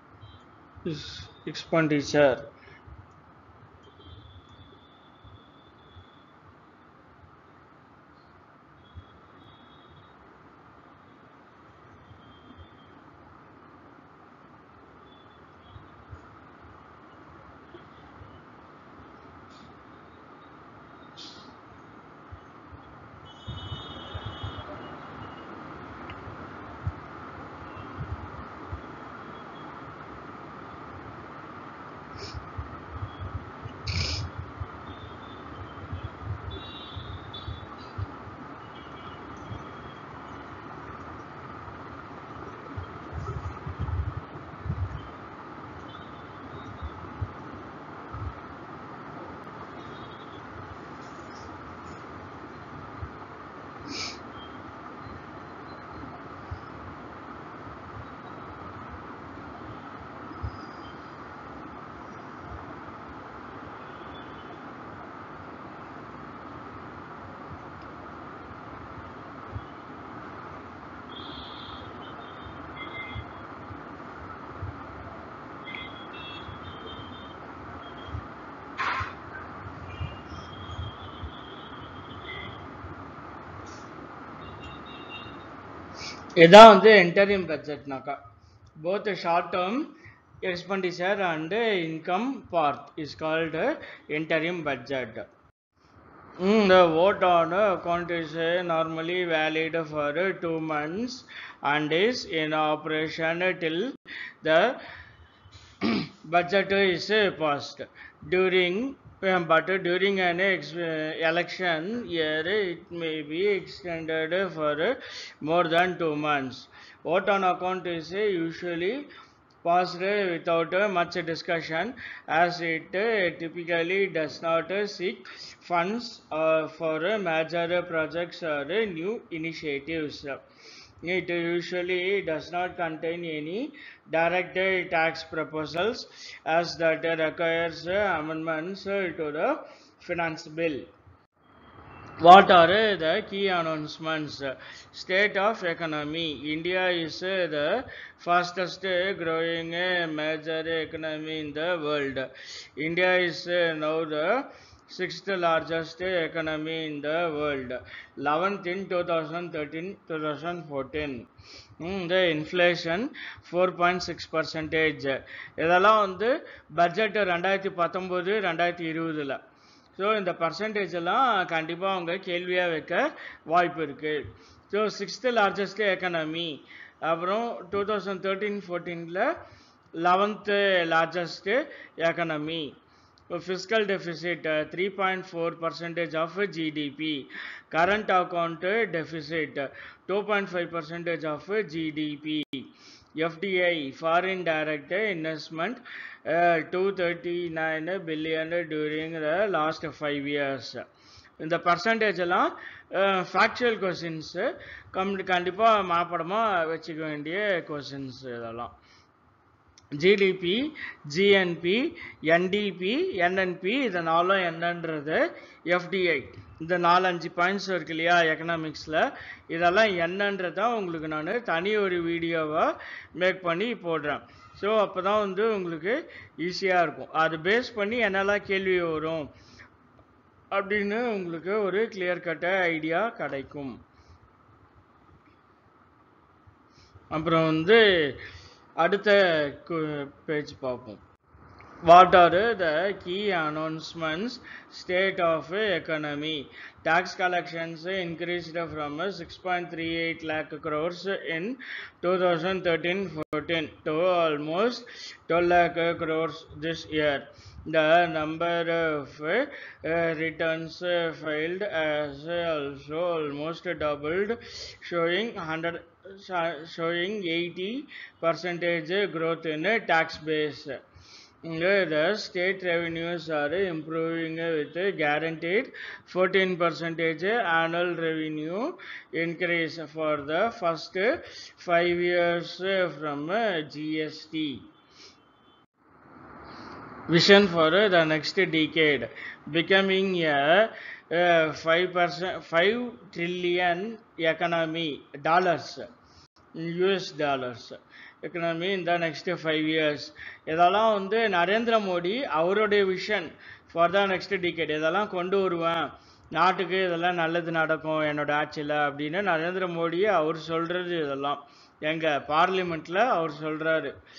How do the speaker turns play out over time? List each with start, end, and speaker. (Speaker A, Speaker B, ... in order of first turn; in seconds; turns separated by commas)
Speaker A: 0.8-2.5, Speaker A: 86.4-88.2, Speaker A: 88.8-89.9, Speaker A: 90.4-95.3, Speaker A: 96.4-104.8, Speaker A: 105.8-119.0, Speaker A: 119.6-130.4, Speaker A: 131.0-140.9, Speaker A: 142.2-161.3, Speaker A: 161.8-169.4, Speaker A: 170.0-179.3, Speaker A: 180.0-182.8, Speaker A: 183.3-200.8, Speaker A: 201.4-208.8, Speaker A: 210.0-229.3, Speaker A: 230.5-233.8, Speaker A: 237.1-238.2, Speaker A: 238.8-241.0, Speaker A: 241.9-270.8, Speaker A: 271.4-284.7, Speaker A: 287.1-295.9, Speaker A: 296.6-314.0